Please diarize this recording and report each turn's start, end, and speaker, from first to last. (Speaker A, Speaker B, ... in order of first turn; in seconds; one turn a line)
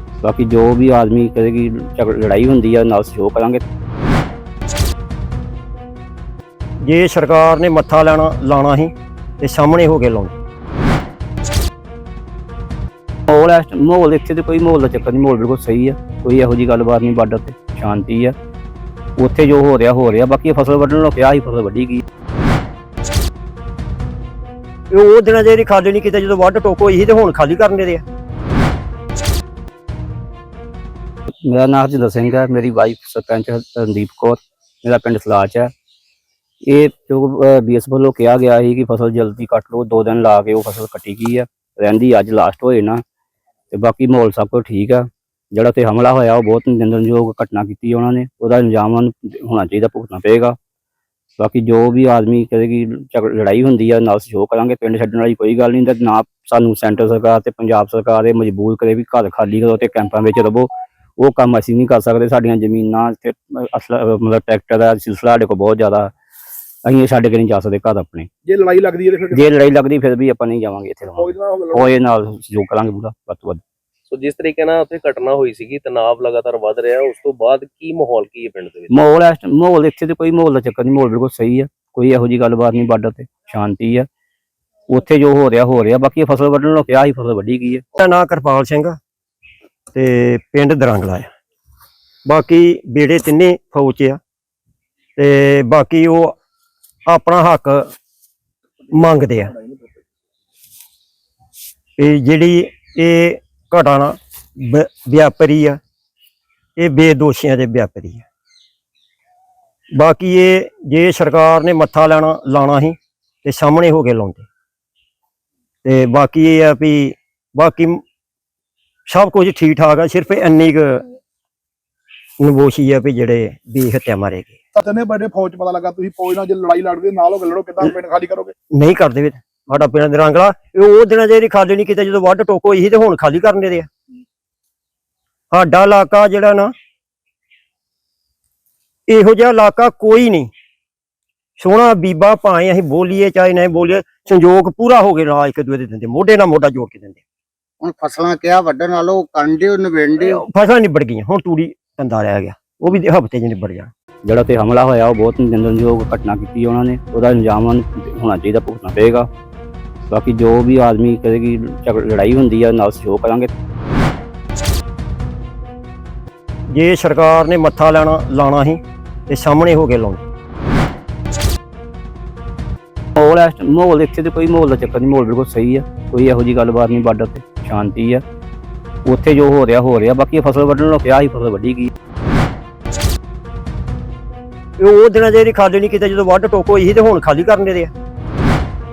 Speaker A: 0.2-3.6
Speaker B: 6.8-10.4
Speaker A: 13.3-18.4
Speaker A: 19.2-22.0
Speaker B: 24.9-28.0
Speaker A: 31.4-35.7
Speaker A: 36.6-43.0
Speaker A: 43.7-50.6
Speaker A: 51.4-66.1
Speaker A: 66.8-68.3
Speaker C: 68.5-69.5
Speaker A: 69.3-73.6
Speaker C: 71.2-71.9
Speaker D: 74.1-79.0
Speaker A: 78.9-84.1
Speaker A: 84.9-87.8
Speaker B: 88.0-89.0
Speaker B: 89.9-91.3
Speaker B: 92.2-94.2
Speaker B: 95.2-96.3
Speaker B: 97.1-97.9
Speaker B: 98.9-99.5
Speaker B: 102.0-105.8
Speaker B: 106.8-108.2
Speaker B: 110.0-114.5
Speaker B: 115.8-118.0
Speaker B: 119.1-121.0
Speaker B: 122.4-124.5
Speaker C: 124.8-128.5
Speaker B: 128.7-133.9
Speaker B: 135.5-136.7
Speaker B: 139.1-140.5
Speaker B: 141.6-147.2
Speaker E: 147.8-150.4
Speaker B: 150.3-153.9
Speaker A: 154.2-159.3
Speaker A: 160.1-163.5
Speaker B: 166.7-170.2
Speaker A: 173.2-178.2
Speaker A: 179.0-181.9
Speaker B: 184.8-187.9